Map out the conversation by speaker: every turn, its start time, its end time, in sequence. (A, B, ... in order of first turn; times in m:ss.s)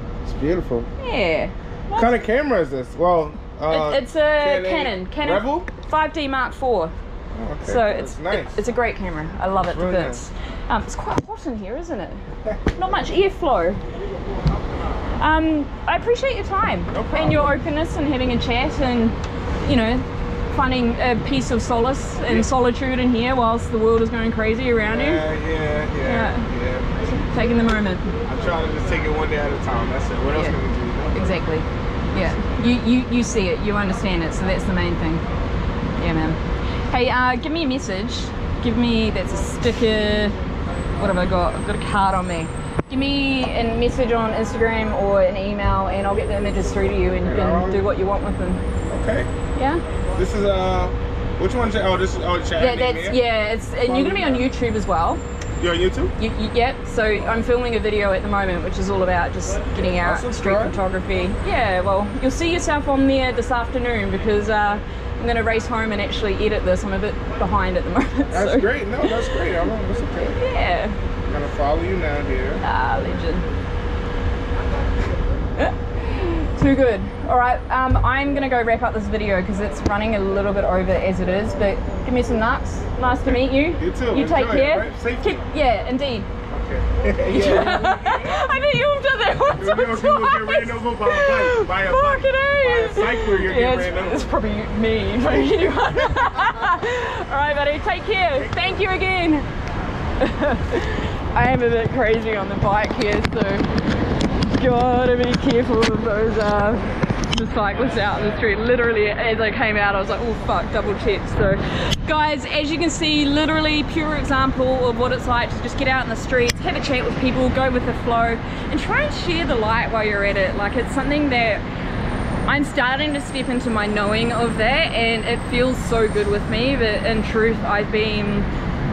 0:00.2-0:00.9 A
0:01.0-0:02.1 B
0:01.9-0:05.7 A
0:03.7-0:06.9 B
0:07.3-0:08.5 A
0:07.6-0:13.8 B
0:09.7-0:10.2 A
0:14.3-0:14.9 A
0:15.2-0:25.2 B
0:16.9-0:17.6 A
0:24.8-0:27.0 A
0:26.0-0:26.5 B
0:27.0-0:28.1 B
0:28.2-0:31.2 A
0:31.1-0:35.2 B
0:36.0-0:40.4 B
0:41.0-0:48.6 B
0:47.2-0:47.8 A
0:48.9-0:49.3 A
0:49.5-0:49.8 B
0:50.1-0:53.2 A
0:52.6-0:55.2 B
0:53.8-0:54.5 A
0:55.6-0:56.1 A
0:56.2-1:09.4 B
1:00.0-1:00.8 A
1:08.3-1:10.4 A
1:10.4-1:11.0 B
1:11.2-1:12.6 A
1:12.6-1:13.4 B
1:15.6-1:26.3 B
1:23.8-1:25.4 A
1:26.5-1:28.4 A
1:27.2-1:39.5 B
1:29.6-1:34.3 A
1:35.2-1:36.5 A
1:38.4-1:38.8 A
1:40.2-1:43.7 B
1:44.5-2:01.6 B
2:02.4-2:08.5 B